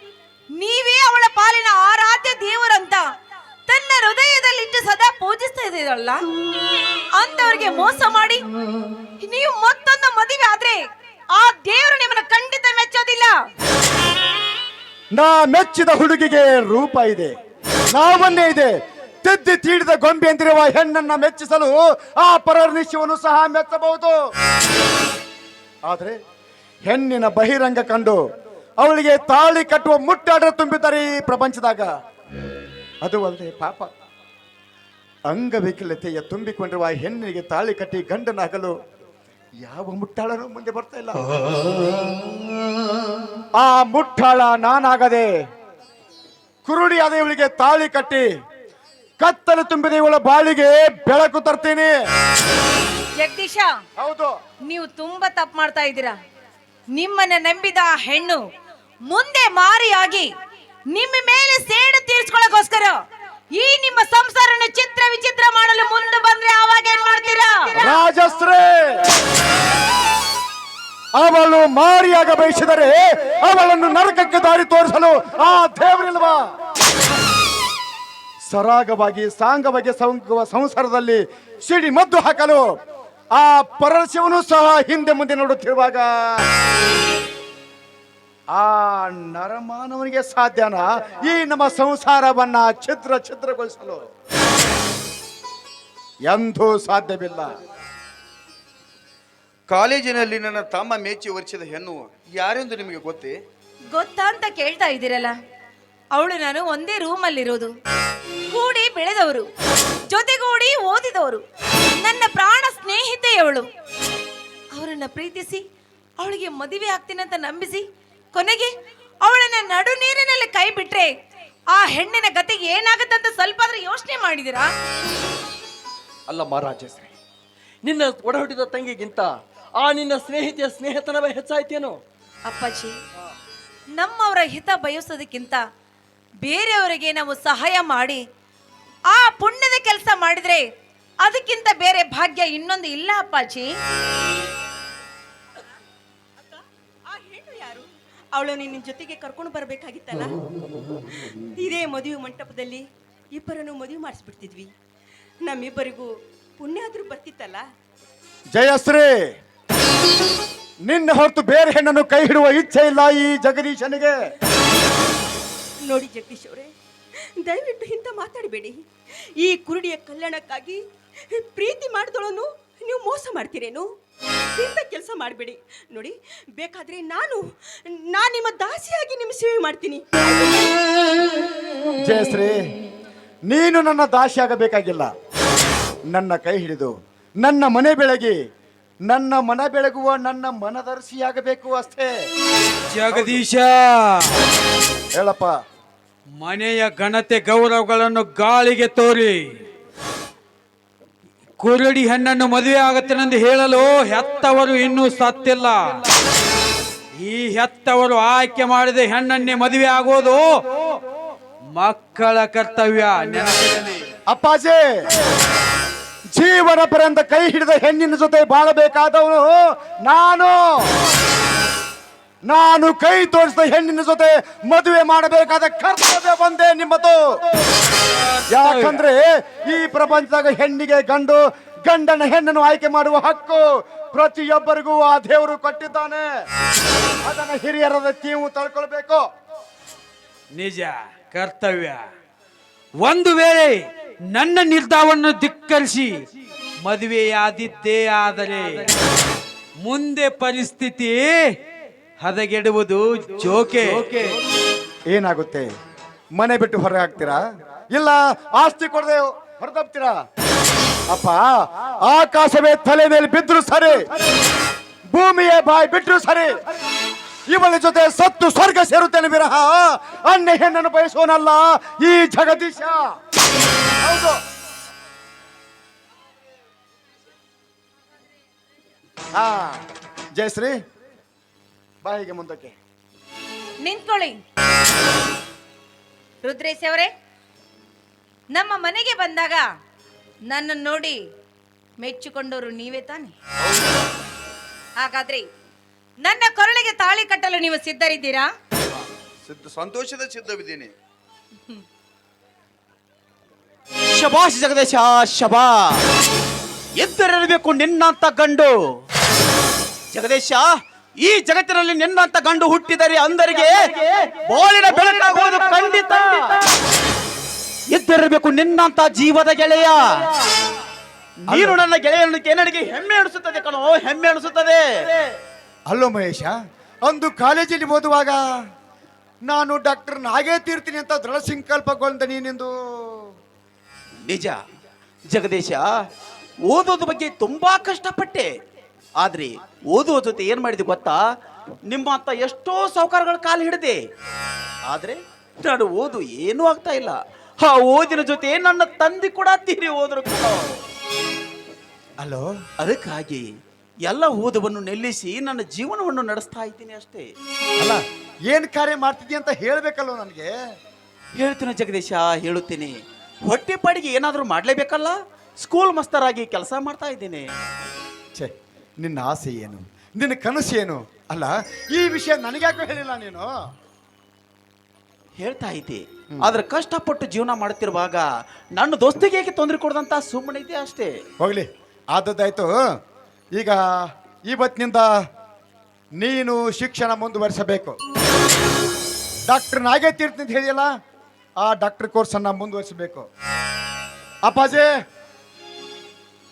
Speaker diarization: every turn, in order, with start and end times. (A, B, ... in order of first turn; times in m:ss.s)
0:00.6-0:03.1 A
0:03.7-0:06.2 A
0:07.2-0:08.4 A
0:09.2-0:10.8 A
0:11.3-0:13.4 A
0:15.1-0:17.3 B
0:17.9-0:24.2 B
0:25.9-0:26.2 B
0:26.9-0:28.2 B
0:28.8-0:31.9 B
0:33.0-0:33.9 B
0:35.3-0:38.7 B
0:39.6-0:41.3 B
0:43.6-0:45.3 B
0:46.6-0:48.3 B
0:49.2-0:51.9 B
0:53.2-0:53.7 A
0:54.0-0:54.3 B
0:54.7-0:56.2 A
0:56.9-0:58.4 A
0:59.1-1:00.3 A
1:00.9-1:03.0 A
1:03.6-1:07.7 A
1:07.8-1:09.1 B
1:11.2-1:16.4 B
1:18.5-1:22.6 B
1:23.4-1:26.1 B
1:28.5-1:34.0 B
1:36.3-1:37.5 B
1:39.7-1:43.4 C
1:43.9-1:45.3 A
1:46.2-1:47.7 A
1:48.5-1:49.5 A
1:50.1-1:51.4 A
1:52.0-1:53.7 A
1:54.8-1:55.6 A
1:56.2-1:57.8 A
1:58.4-1:58.7 A
1:59.3-2:01.1 A
2:01.7-2:04.7 A
2:06.3-2:07.1 D
2:07.8-2:12.0 D
2:12.5-2:13.0 A
2:14.0-2:15.6 A
2:16.4-2:18.2 A
2:19.1-2:20.6 A
2:21.2-2:23.7 A
2:27.1-2:30.4 E
2:31.6-2:34.7 E
2:35.4-2:37.6 E
2:38.5-2:39.1 B
2:40.8-2:44.2 B
2:45.9-2:46.7 E
2:47.4-2:48.8 E
2:49.4-2:53.9 E
2:54.6-3:00.7 E
3:02.0-3:02.6 B
3:03.5-3:05.1 B
3:06.1-3:08.4 B
3:09.1-3:12.3 B
3:12.9-3:14.4 F
3:15.2-3:15.5 B
3:16.4-3:19.5 F
3:21.6-3:26.0 F
3:27.2-3:30.4 F
3:31.8-3:34.0 F
3:34.3-3:34.8 B
3:36.3-3:40.9 B
3:42.5-3:47.2 B
3:48.1-3:49.0 F
3:48.5-3:56.3 B
3:57.2-3:59.2 B
4:00.5-4:02.0 F
4:03.0-4:03.8 F
4:04.3-4:06.2 F
4:06.8-4:08.9 F
4:09.8-4:11.2 F
4:12.2-4:14.4 F
4:15.1-4:15.7 B
4:16.4-4:17.4 B
4:17.9-4:20.2 B
4:21.1-4:21.5 B
4:22.0-4:24.0 B
4:25.1-4:26.5 B
4:27.5-4:33.0 B
4:34.0-4:34.4 B
4:39.4-4:39.8 B
4:40.4-4:40.8 B
4:42.0-4:42.8 B
4:43.8-4:44.4 A
4:46.4-4:47.1 A
4:48.5-4:49.6 A
4:50.5-4:51.2 A
4:52.0-4:53.4 A
4:53.7-4:54.0 C
4:55.0-4:55.5 A
4:56.2-4:58.5 A
4:59.4-5:00.9 C
5:04.1-5:05.7 G
5:07.0-5:08.7 G
5:10.1-5:10.7 G
5:11.2-5:16.6 G
5:17.9-5:20.3 G
5:21.5-5:24.9 G
5:21.5-5:21.8 B
5:25.9-5:28.4 B
5:29.5-5:33.3 B
5:34.3-5:34.6 G
5:35.3-5:35.8 G
5:36.7-5:38.5 G
5:39.2-5:41.2 G
5:41.9-5:44.0 G
5:44.9-5:50.7 G
5:52.2-5:52.5 B
5:52.8-5:53.5 G
5:54.1-5:57.3 G
5:57.8-6:00.5 B
6:01.4-6:03.0 G
6:03.5-6:07.5 G
6:08.4-6:13.5 B
6:15.4-6:18.3 G
6:18.8-6:21.1 G
6:21.4-6:22.7 B
6:24.5-6:25.1 B
6:26.2-6:28.0 B
6:29.5-6:30.9 B
6:31.6-6:33.3 B
6:34.5-6:34.9 B